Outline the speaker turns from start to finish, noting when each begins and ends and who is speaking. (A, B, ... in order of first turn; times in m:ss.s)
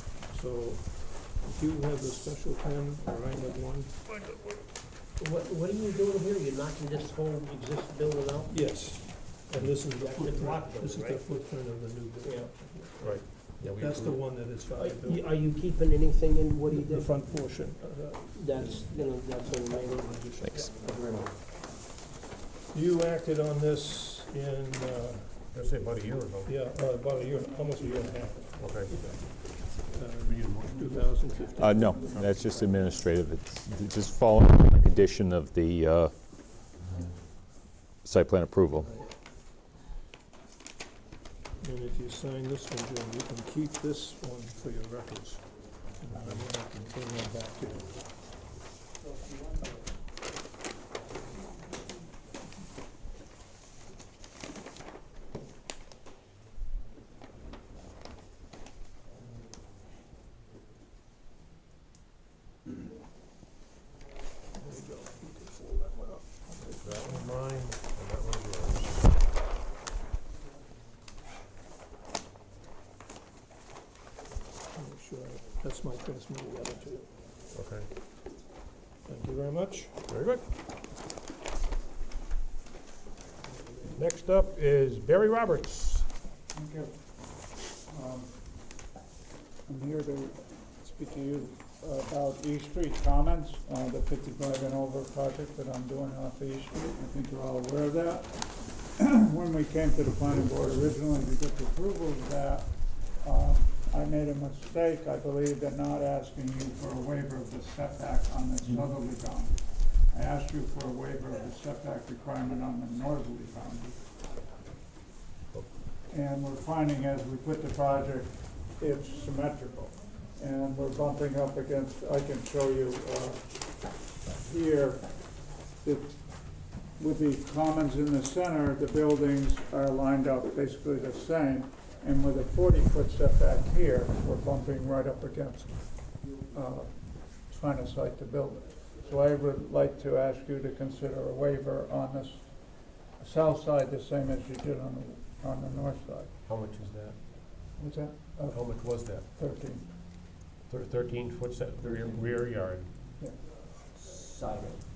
0:00.3-0:04.0 A
0:04.1-0:04.5 B
0:05.2-0:08.5 C
0:08.5-0:15.3 A
0:09.9-0:11.2 C
0:12.2-0:12.5 C
0:13.0-0:14.5 B
0:14.8-0:17.2 C
0:16.6-0:18.8 A
0:18.3-0:20.2 C
0:19.6-0:20.9 A
0:20.9-0:21.3 C
0:22.7-0:25.4 A
0:25.5-0:26.5 B
0:26.4-0:32.2 A
0:28.6-0:29.0 B
0:30.2-0:30.9 B
0:31.6-0:36.1 D
0:38.0-0:38.9 D
0:41.6-0:48.0 A
1:04.5-1:07.2 A
1:06.8-1:09.1 B
1:14.7-1:17.1 A
1:17.5-1:17.9 B
1:19.0-1:19.9 A
1:20.1-1:20.4 B
1:23.9-1:26.1 B
1:26.5-1:26.9 E
1:27.5-1:28.3 E
1:29.6-1:54.0 E
1:56.1-2:03.7 E
2:04.3-2:05.2 E
2:05.8-2:26.3 E
2:26.4-2:27.2 B
2:27.8-2:29.8 E
2:28.5-2:29.2 B
2:30.7-2:32.9 B
2:34.0-2:34.8 C